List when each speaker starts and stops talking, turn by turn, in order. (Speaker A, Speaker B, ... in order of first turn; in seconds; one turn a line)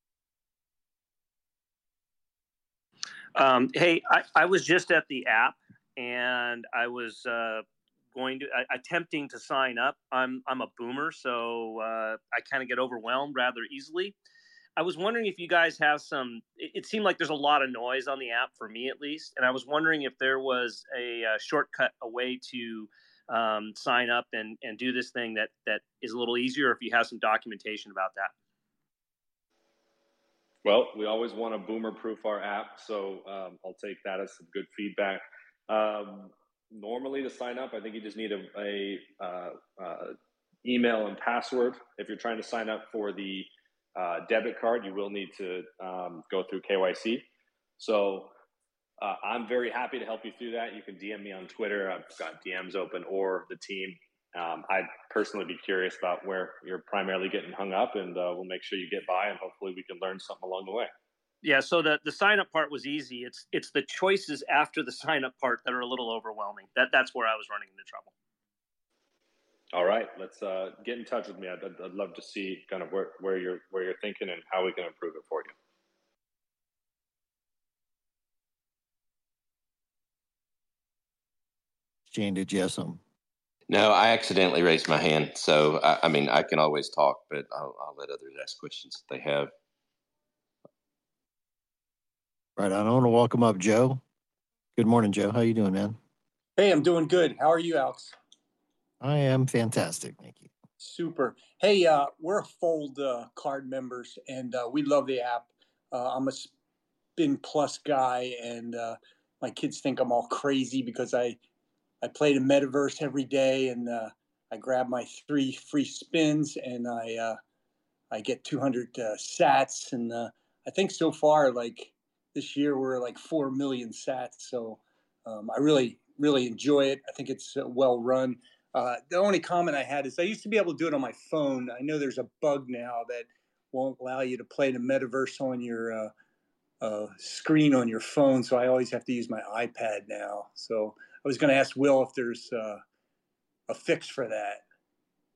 Speaker A: 3.3-14.1
Speaker A: 14.8-28.3
Speaker B: 30.6-47.2
Speaker B: 47.8-48.3
Speaker B: 49.0-60.9
Speaker A: 61.4-68.1
Speaker B: 69.7-75.5
Speaker C: 82.1-83.0
Speaker D: 83.7-89.5
Speaker C: 92.6-94.0
Speaker C: 94.8-96.0
Speaker E: 96.6-98.1
Speaker C: 99.0-100.5
Speaker E: 100.8-106.5
Speaker E: 107.2-111.4
Speaker E: 112.0-117.4
Speaker E: 118.1-136.1
Speaker E: 136.8-142.8
Speaker E: 143.7-144.6